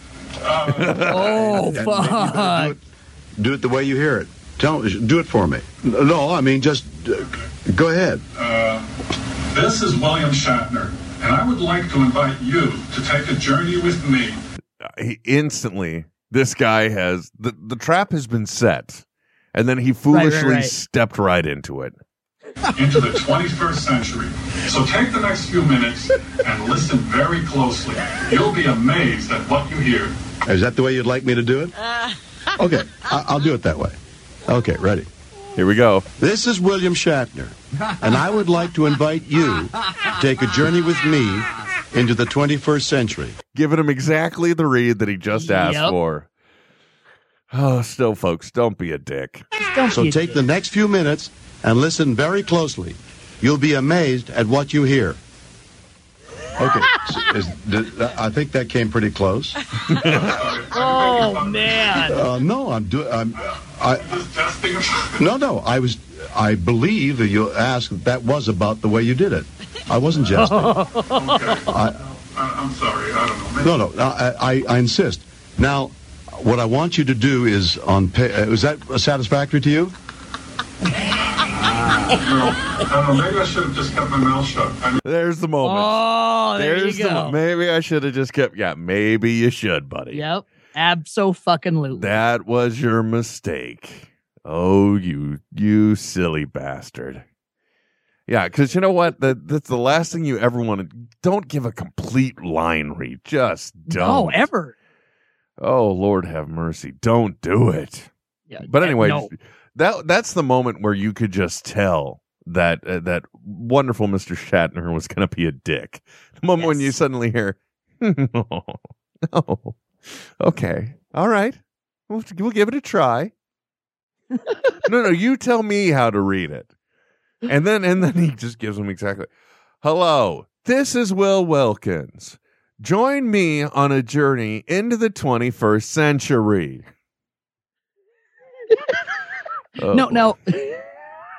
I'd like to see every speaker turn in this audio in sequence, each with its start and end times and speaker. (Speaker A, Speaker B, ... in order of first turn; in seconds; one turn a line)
Speaker A: 0.4-1.2
Speaker B: 0.8-1.4
Speaker C: 1.1-2.8
Speaker D: 1.3-2.8
Speaker D: 3.4-8.2
Speaker A: 8.3-8.8
Speaker A: 9.5-14.4
Speaker B: 14.8-22.0
Speaker C: 20.1-20.7
Speaker A: 22.8-30.1
Speaker D: 30.5-31.8
Speaker D: 32.6-35.1
Speaker B: 35.5-36.1
Speaker D: 36.2-43.4
Speaker B: 43.5-46.3
Speaker C: 45.3-46.0
Speaker B: 47.5-49.5
Speaker C: 49.6-50.4
Speaker D: 49.9-55.2
Speaker D: 56.6-59.6
Speaker A: 59.9-62.2
Speaker C: 60.7-62.2
Speaker D: 62.1-64.2
Speaker A: 63.5-65.3
Speaker D: 65.2-70.8
Speaker C: 70.3-71.5
Speaker A: 71.0-73.8
Speaker D: 71.7-72.0
Speaker D: 73.6-79.9
Speaker A: 82.1-85.0
Speaker B: 85.0-90.2
Speaker C: 85.6-87.4
Speaker C: 90.1-92.2
Speaker B: 92.0-97.2
Speaker B: 98.3-104.5
Speaker C: 103.9-104.7
Speaker B: 105.6-108.1
Speaker C: 108.5-109.3
Speaker B: 108.6-123.3
Speaker C: 116.6-116.9
Speaker B: 124.8-126.7
Speaker B: 127.5-129.3
Speaker B: 129.8-136.9
Speaker B: 139.8-140.4
Speaker C: 139.9-140.8